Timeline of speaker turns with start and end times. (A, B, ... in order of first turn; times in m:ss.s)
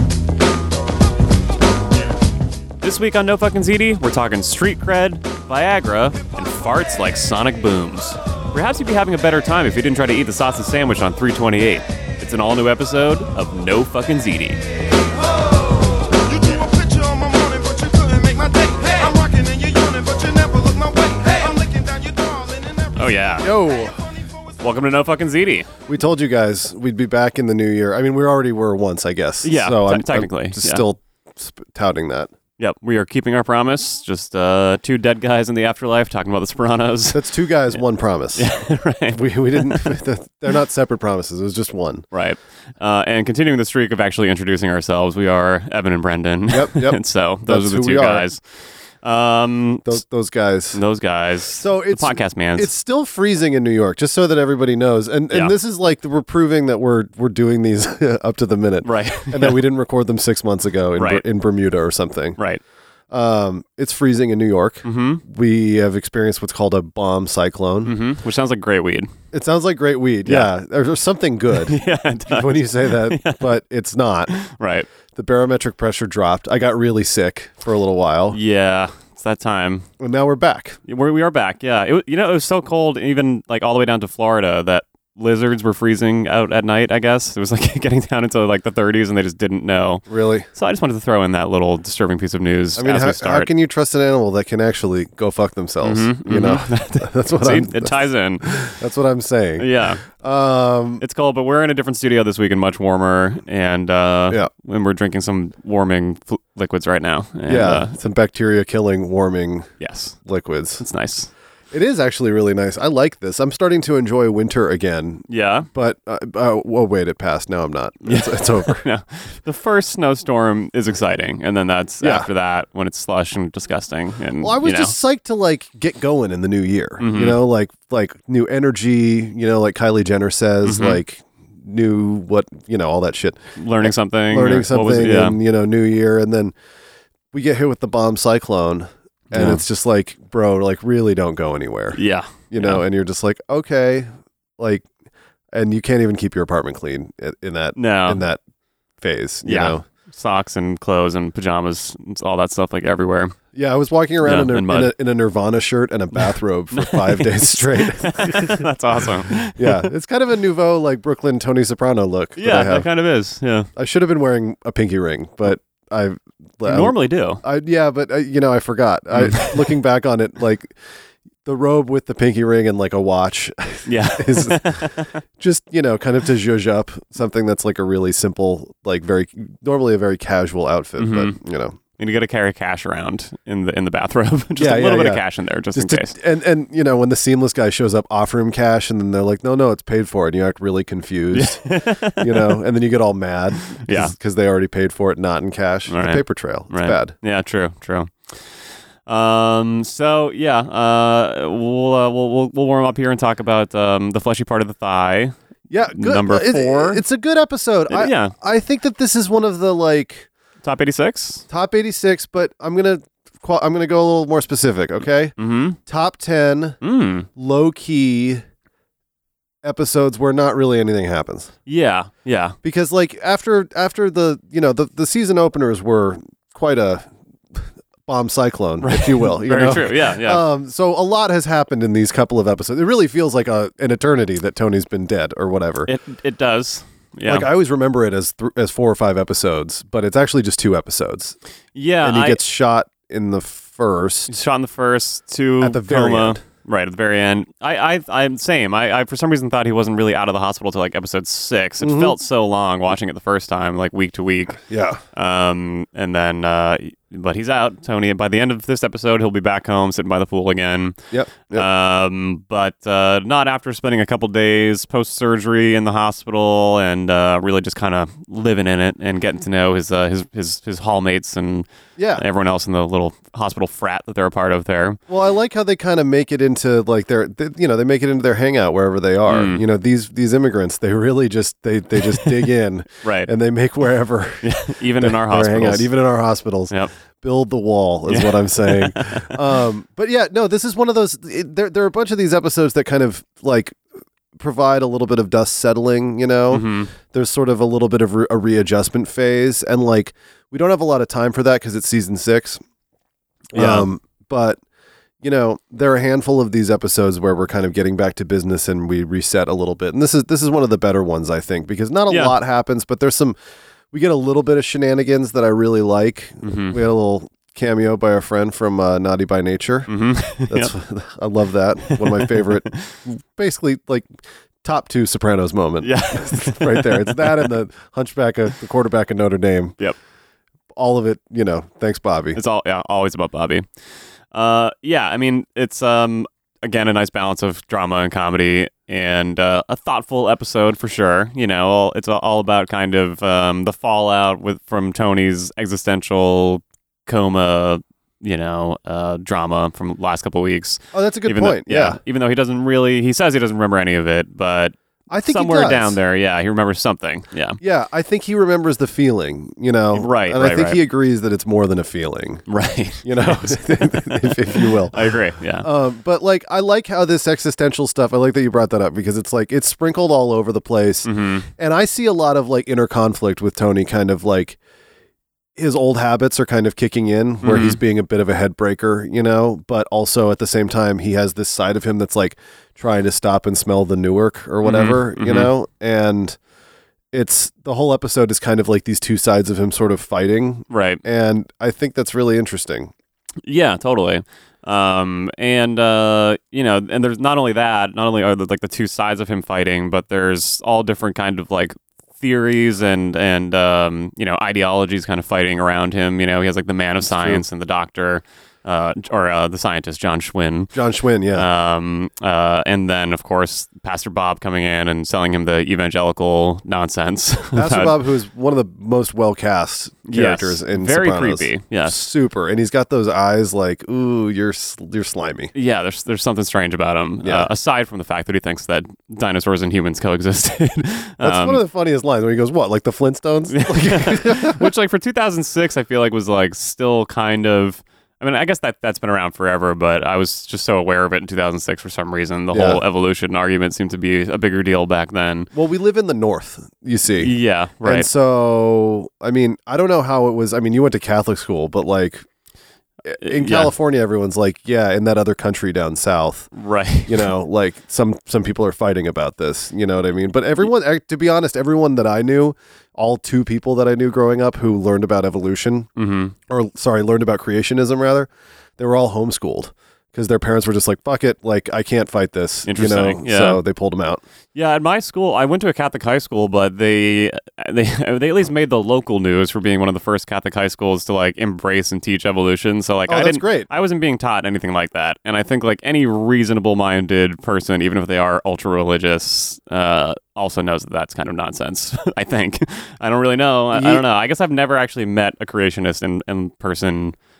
0:02.8-0:14.6 A
0:16.0-0:24.4 B
0:23.0-0:23.5 A
0:23.4-0:24.0 C
0:24.6-0:25.7 A
0:25.9-0:32.3 C
0:29.4-0:30.8 A
0:32.6-0:37.8 A
0:37.1-0:38.5 C
0:38.3-0:40.0 A
0:39.1-0:42.0 C
0:42.1-0:48.4 A
0:46.5-0:48.2 C
0:49.0-0:50.0 A
0:49.8-0:50.8 C
0:50.7-0:52.7 A
0:51.6-1:02.4 C
0:58.8-0:59.6 A
1:01.0-1:01.2 A
1:03.1-1:07.9 C
1:04.8-1:05.2 A
1:07.8-1:09.1 A
1:09.3-1:14.3 C
1:11.5-1:13.4 A
1:14.3-1:14.9 A
1:15.1-1:18.4 C
1:18.3-1:19.9 A
1:20.0-1:20.8 C
1:20.9-1:33.5 A
1:30.1-1:30.5 C
1:32.8-1:41.0 C
1:35.8-1:38.5 A
1:39.6-1:40.0 A
1:41.0-1:47.9 A
1:47.5-1:49.7 C
1:49.8-1:50.2 A
1:50.2-1:50.8 C
1:50.8-1:51.3 A
1:51.7-1:58.8 C
1:55.3-1:55.7 A
1:58.0-2:04.9 A
2:02.0-2:02.3 C
2:04.4-2:16.5 C
2:07.0-2:07.4 A
2:10.6-2:11.0 A
2:13.6-2:15.4 A
2:17.3-2:22.0 C
2:19.3-2:19.6 A
2:21.9-2:22.8 A
2:22.5-2:24.8 C
2:25.5-2:28.4 C
2:27.8-2:28.2 A
2:29.0-2:29.8 C
2:29.4-2:33.4 A
2:33.5-2:38.7 C
2:34.2-2:34.9 A
2:36.2-2:39.9 A
2:39.5-2:42.9 C
2:42.4-2:43.7 A
2:43.8-2:50.7 C
2:46.6-2:47.4 A
2:49.1-2:49.7 A
2:51.4-3:01.8 C
2:53.8-2:55.2 A
3:01.0-3:01.4 A
3:02.0-3:06.2 A
3:04.6-3:05.2 C
3:05.7-3:17.1 C
3:11.3-3:12.6 A
3:13.7-3:14.1 A
3:15.9-3:18.4 A
3:19.0-3:25.3 A
3:25.7-3:30.3 C
3:25.9-3:27.0 A
3:27.9-3:28.3 A
3:30.6-3:31.4 A
3:31.5-3:35.3 C
3:35.4-3:35.8 A
3:35.8-3:36.8 C
3:36.8-3:37.3 A
3:37.4-3:38.4 C
3:39.6-3:41.5 C
3:41.7-3:42.6 A
3:42.6-3:55.9 C
3:48.8-3:50.4 A
3:55.8-3:57.5 A
3:57.2-4:01.4 C
4:01.7-4:02.4 A
4:02.0-4:04.3 C
4:04.3-4:14.6 A
4:05.6-4:06.4 C
4:11.8-4:12.1 C
4:14.6-4:15.0 C
4:15.1-4:21.0 A
4:21.1-4:21.6 C
4:21.5-4:35.0 A
4:32.0-4:32.2 C
4:35.1-4:53.8 C
4:39.3-4:39.6 A
4:43.0-4:43.3 A
4:44.4-4:45.9 A
4:48.1-4:49.4 A
4:54.3-5:02.6 C
4:56.5-4:56.9 A
5:03.5-5:03.8 A
5:03.5-5:04.6 C
5:05.2-5:13.4 C
5:12.1-5:12.3 A
5:13.9-5:19.9 C
5:16.4-5:16.8 A
5:19.9-5:20.7 A
5:20.5-5:29.8 C
5:21.9-5:22.9 A
5:25.8-5:27.5 A
5:30.7-5:32.4 C
5:32.3-5:33.6 A
5:34.3-5:54.7 A
5:50.9-5:52.0 C
5:55.1-5:56.0 C
5:55.3-5:57.6 A
5:57.6-6:02.4 C
5:59.9-6:00.8 A
6:02.5-6:05.7 A
6:03.0-6:14.6 C
6:11.0-6:11.5 A
6:15.6-6:26.4 C
6:17.4-6:17.8 A
6:24.6-6:25.5 A
6:27.1-6:32.9 C
6:30.7-6:31.0 A
6:33.4-6:50.7 A
6:47.0-6:47.4 C
6:50.7-6:51.5 C
6:51.3-6:58.0 A
6:57.5-7:05.5 C
7:00.1-7:02.0 A
7:05.5-7:11.6 A
7:07.2-7:07.5 C
7:11.2-7:14.7 C
7:13.5-7:25.5 A
7:22.5-7:22.8 C
7:25.5-7:32.2 C
7:27.2-7:28.1 A
7:33.0-7:36.5 C
7:33.2-7:33.7 A
7:36.5-7:37.3 A
7:37.0-7:45.9 C
7:46.0-7:46.3 A
7:46.5-7:54.2 C
7:52.6-7:53.6 A
7:54.5-8:17.1 A
8:03.1-8:03.7 C
8:13.7-8:14.0 C